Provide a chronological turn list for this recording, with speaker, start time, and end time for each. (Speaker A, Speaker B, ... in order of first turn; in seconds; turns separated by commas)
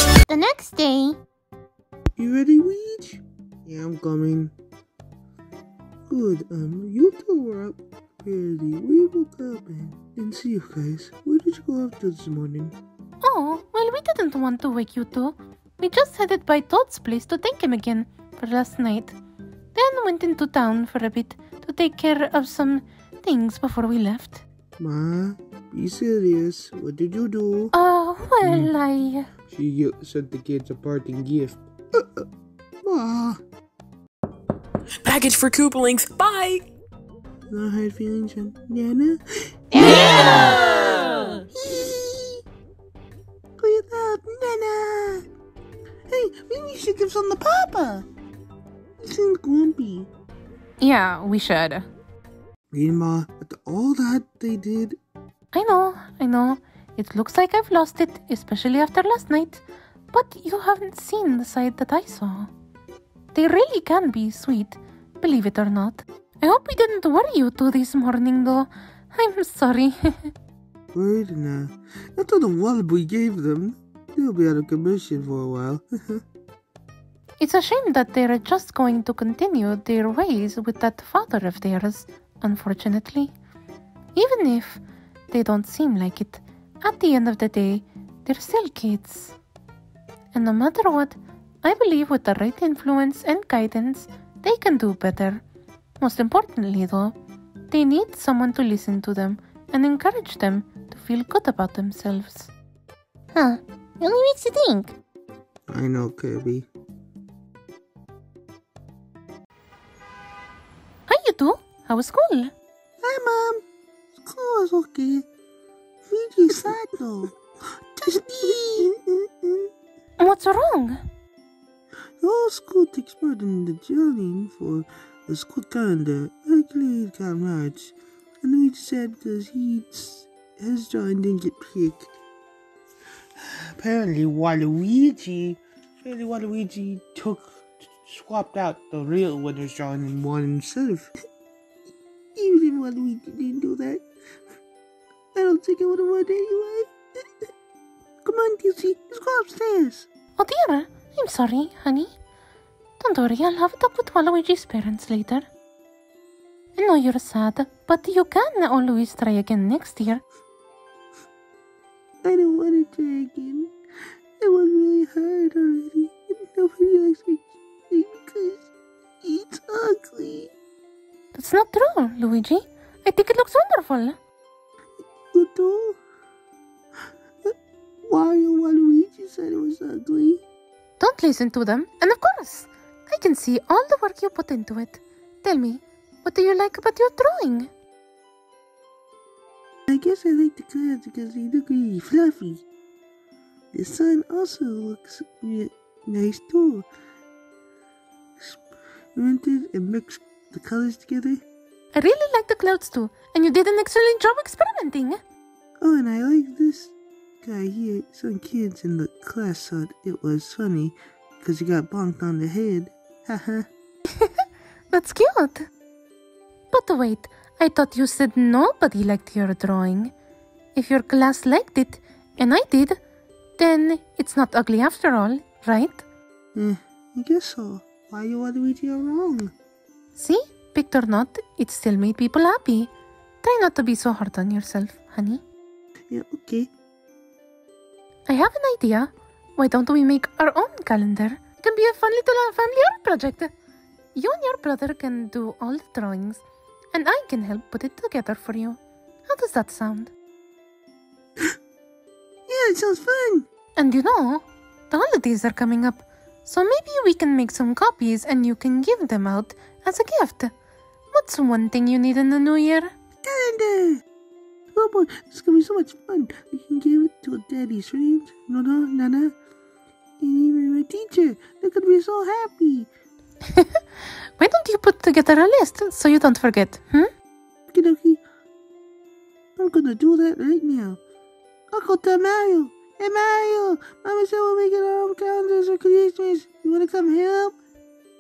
Speaker A: 0.3-1.2, Speaker B: 2.2-4.5, Speaker B: 6.1-12.8, Speaker A: 13.2-19.2, Speaker A: 19.8-24.4, Speaker B: 24.8-27.8, Speaker A: 27.7-29.3, Speaker B: 28.4-28.7, Speaker B: 29.5-32.2, Speaker B: 32.8-33.4, Speaker C: 35.0-36.6, Speaker B: 37.5-39.2, Speaker B: 39.7-40.5, Speaker C: 40.2-40.9, Speaker B: 41.5-42.4, Speaker B: 43.6-45.2, Speaker B: 46.1-48.1, Speaker B: 49.0-50.1, Speaker A: 50.8-51.9, Speaker B: 52.7-55.0, Speaker A: 55.5-62.5, Speaker A: 63.3-70.3, Speaker B: 70.9-76.2, Speaker A: 77.4-83.3, Speaker A: 84.2-89.4, Speaker A: 90.3-95.4, Speaker A: 96.0-97.2, Speaker A: 97.7-102.5, Speaker A: 103.3-104.9, Speaker B: 105.7-106.7, Speaker A: 111.1-112.5, Speaker B: 113.0-113.6, Speaker B: 114.2-115.3, Speaker B: 116.1-117.3, Speaker B: 118.0-119.7, Speaker A: 120.2-121.0, Speaker B: 122.2-132.1, Speaker B: 133.6-141.1, Speaker B: 142.4-144.1, Speaker B: 145.3-147.2, Speaker B: 148.2-150.1, Speaker A: 150.4-152.1, Speaker A: 153.0-155.5, Speaker A: 156.8-160.2, Speaker B: 162.2-163.7, Speaker B: 164.4-168.7, Speaker B: 169.2-170.5, Speaker A: 171.3-174.2, Speaker B: 175.3-176.0, Speaker B: 177.4-180.4, Speaker A: 181.0-187.7, Speaker B: 189.9-192.7, Speaker B: 193.7-196.8, Speaker B: 199.2-201.4, Speaker A: 201.9-205.2, Speaker B: 205.8-213.7, Speaker A: 214.9-215.7, Speaker A: 216.7-220.1, Speaker A: 220.7-223.0, Speaker A: 223.6-226.0, Speaker B: 226.6-229.5, Speaker A: 230.2-232.9, Speaker A: 233.4-235.4, Speaker B: 236.1-236.7, Speaker A: 238.3-243.5, Speaker A: 244.2-250.1, Speaker B: 252.5-253.5, Speaker A: 253.8-260.5, Speaker A: 261.1-262.9, Speaker B: 263.2-264.0, Speaker B: 264.7-269.4, Speaker B: 270.2-272.9, Speaker A: 273.5-273.8, Speaker A: 274.4-277.1, Speaker B: 277.7-278.2, Speaker B: 279.6-281.0, Speaker B: 281.7-287.6